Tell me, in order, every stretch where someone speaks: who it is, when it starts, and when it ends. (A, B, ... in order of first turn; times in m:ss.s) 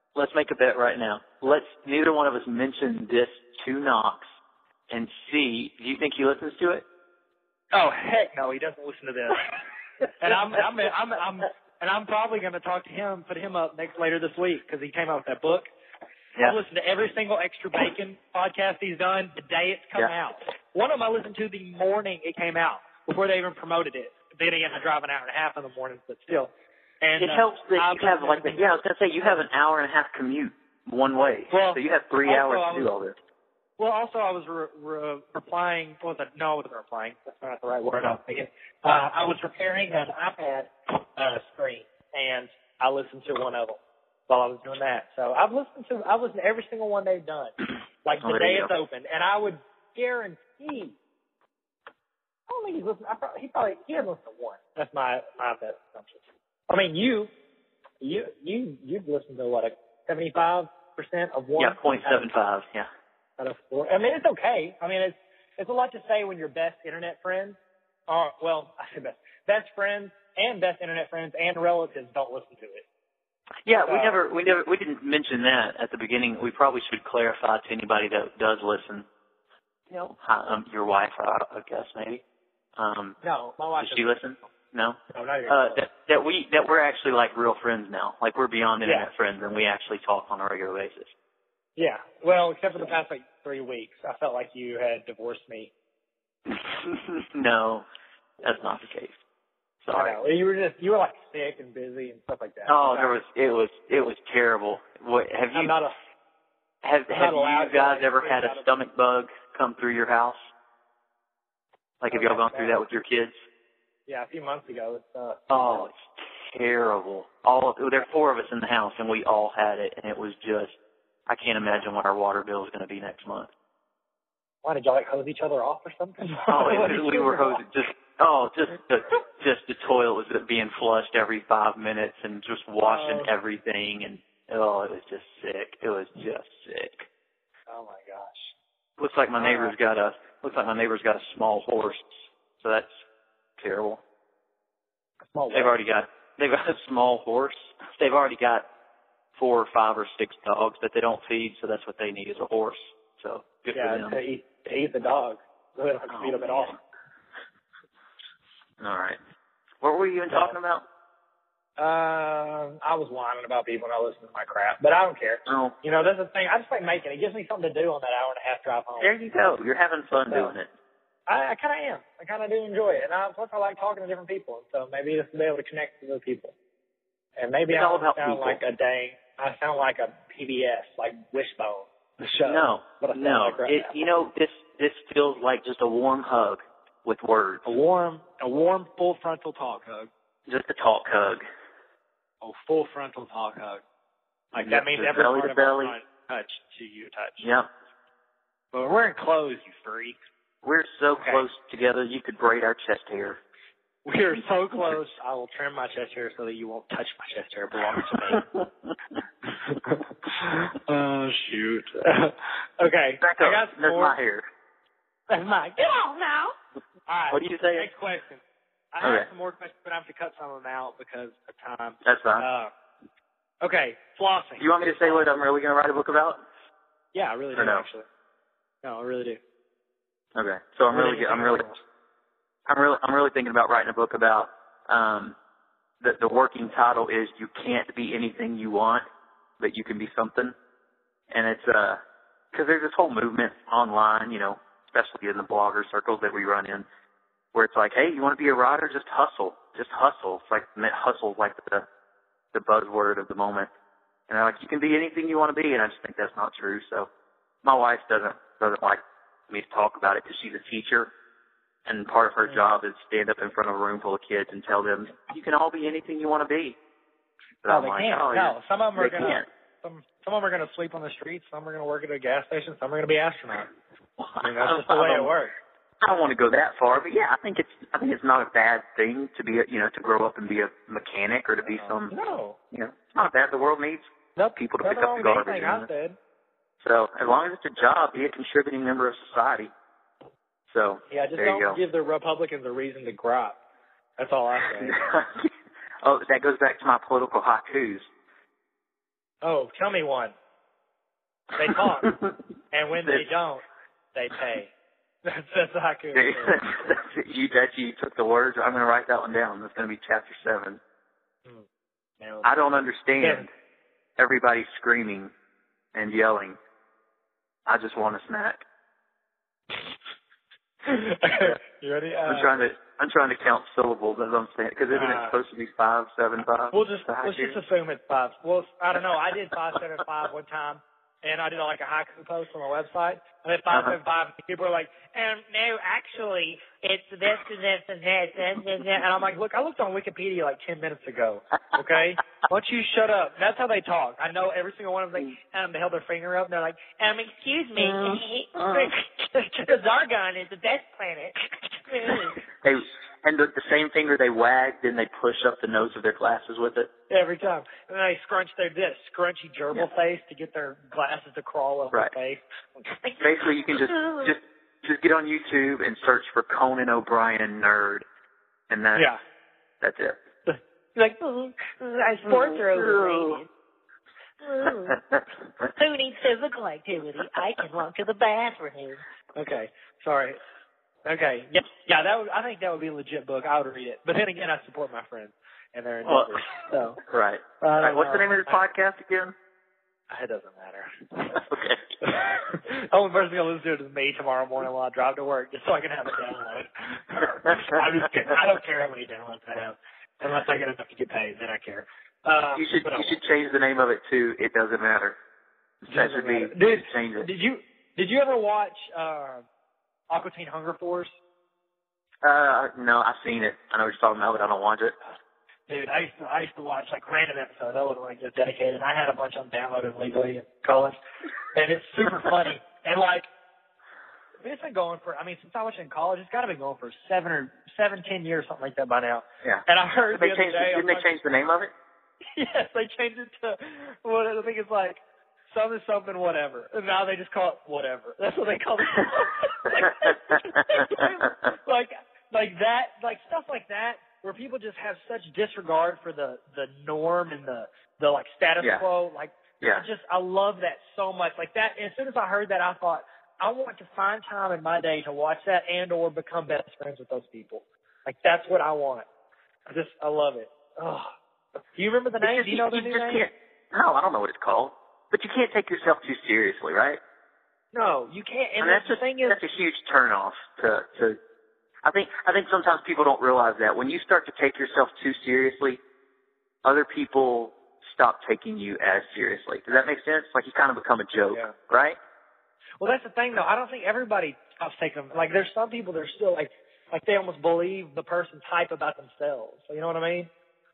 0:00.2-0:04.2 A
0:04.9-0:06.8 A
0:07.7-0:09.6 B
0:10.2-0:15.7 B
0:16.4-0:28.6 B
0:27.2-0:33.2 A
0:31.5-0:32.9 B
0:33.8-0:47.5 B
0:48.0-0:51.0 B
0:48.2-0:48.7 A
0:52.5-0:57.3 B
0:58.0-1:02.3 B
1:01.6-1:02.9 A
1:03.4-1:12.8 B
1:13.7-1:19.1 A
1:13.8-1:14.2 B
1:19.9-1:22.2 A
1:22.8-1:23.2 A
1:23.2-1:24.2 B
1:23.8-1:31.1 A
1:25.1-1:25.8 B
1:28.8-1:29.1 B
1:31.8-1:35.7 B
1:36.5-1:37.9 A
1:38.4-1:39.1 A
1:39.8-1:40.2 A
1:39.9-1:43.2 B
1:42.7-1:45.7 A
1:45.5-1:46.0 B
1:46.8-1:50.4 A
1:47.1-1:48.7 B
1:52.0-1:53.4 A
1:52.1-1:52.8 B
1:54.1-1:55.9 B
1:55.5-2:00.8 A
2:01.3-2:03.5 A
2:04.6-2:07.6 B
2:06.5-2:17.1 A
2:12.8-2:13.3 B
2:17.7-2:18.5 B
2:19.0-2:23.0 A
2:19.4-2:19.8 B
2:23.6-2:24.0 A
2:25.3-2:25.7 B
2:25.5-2:28.7 A
2:29.4-2:34.2 A
2:33.8-2:36.8 B
2:36.1-2:36.8 A
2:38.8-2:39.2 A
2:39.8-2:40.8 A
2:40.3-2:40.6 B
2:41.8-2:49.1 B
2:45.5-2:45.8 A
2:49.0-2:50.7 A
2:50.3-2:50.5 B
2:51.3-2:56.5 B
2:57.4-3:03.9 B
2:57.7-2:58.6 A
3:02.5-3:07.7 A
3:07.6-3:10.1 B
3:10.5-3:11.4 A
3:12.4-3:13.8 B
3:14.5-3:17.5 B
3:14.6-3:15.9 A
3:17.4-3:17.7 A
3:18.7-3:20.2 B
3:20.6-3:23.4 A
3:24.0-3:28.4 B
3:28.3-3:28.6 A
3:29.5-3:34.2 B
3:33.2-3:34.5 A
3:35.3-3:36.6 B
3:37.1-3:38.4 B
3:37.3-3:37.9 A
3:38.9-3:42.7 B
3:39.0-3:39.3 A
3:42.0-3:42.5 A
3:43.6-3:45.2 B
3:44.6-3:46.4 A
3:47.1-3:48.1 B
3:47.6-3:47.9 A
3:48.8-3:49.4 B
3:50.4-3:51.7 A
3:50.9-3:51.8 B
3:52.7-3:55.4 A
3:56.0-3:59.0 A
3:59.6-4:00.6 A
4:01.3-4:02.0 A
4:02.5-4:06.9 A
4:07.5-4:11.9 A
4:12.5-4:13.7 A
4:14.3-4:17.1 A
4:17.6-4:21.1 A
4:21.9-4:26.8 A
4:27.6-4:29.4 A
4:27.7-4:33.7 B
4:34.2-4:35.3 A
4:34.4-4:35.5 B
4:36.0-4:42.1 A
4:41.8-4:42.6 B
4:42.7-4:45.9 A
4:44.4-4:46.2 B
4:46.8-4:49.7 A
4:50.7-4:51.8 A
4:51.1-4:53.6 B
4:54.2-4:55.0 B
4:54.8-4:58.1 A
4:59.4-5:00.4 B
5:01.6-5:02.1 B
5:01.7-5:02.4 A
5:02.7-5:04.7 B
5:05.2-5:06.6 B
5:06.1-5:10.8 A
5:12.2-5:12.5 B
5:12.4-5:13.5 A
5:13.2-5:13.5 B
5:14.2-5:15.3 A
5:15.9-5:16.6 A
5:17.7-5:18.6 A
5:20.8-5:22.7 B
5:22.3-5:27.6 A
5:24.9-5:25.4 B
5:26.7-5:52.4 B
5:33.7-5:34.0 A
5:47.8-5:48.9 A
5:52.6-5:56.9 A
5:57.1-6:03.1 B
6:03.2-6:08.0 A
6:08.7-6:09.1 A
6:09.8-6:10.2 A
6:10.5-6:13.4 B
6:11.3-6:13.4 C
6:12.3-6:13.4 A
6:14.6-6:14.9 C
6:14.9-6:15.7 A
6:15.8-6:19.0 C
6:19.4-6:20.4 B
6:21.1-6:27.0 B
6:26.0-6:26.4 A
6:27.0-6:29.4 A
6:27.6-6:28.6 B
6:30.1-6:31.4 B
6:31.3-6:31.9 A
6:32.0-6:43.2 B
6:42.6-6:45.2 A
6:45.9-6:47.3 A
6:45.9-6:49.5 B
6:50.1-6:51.1 B
6:52.2-6:55.0 A
6:55.7-7:01.0 B
7:01.5-7:03.3 B
7:04.4-7:11.1 B
7:09.4-7:11.7 A
7:12.4-7:39.1 B
7:19.7-7:21.1 A
7:39.7-7:41.1 B
7:41.8-7:43.2 B
7:42.2-7:47.0 A
7:47.7-7:49.4 B
7:48.6-7:51.2 A
7:51.8-7:55.8 A
7:56.6-8:02.0 A
8:02.8-8:10.3 B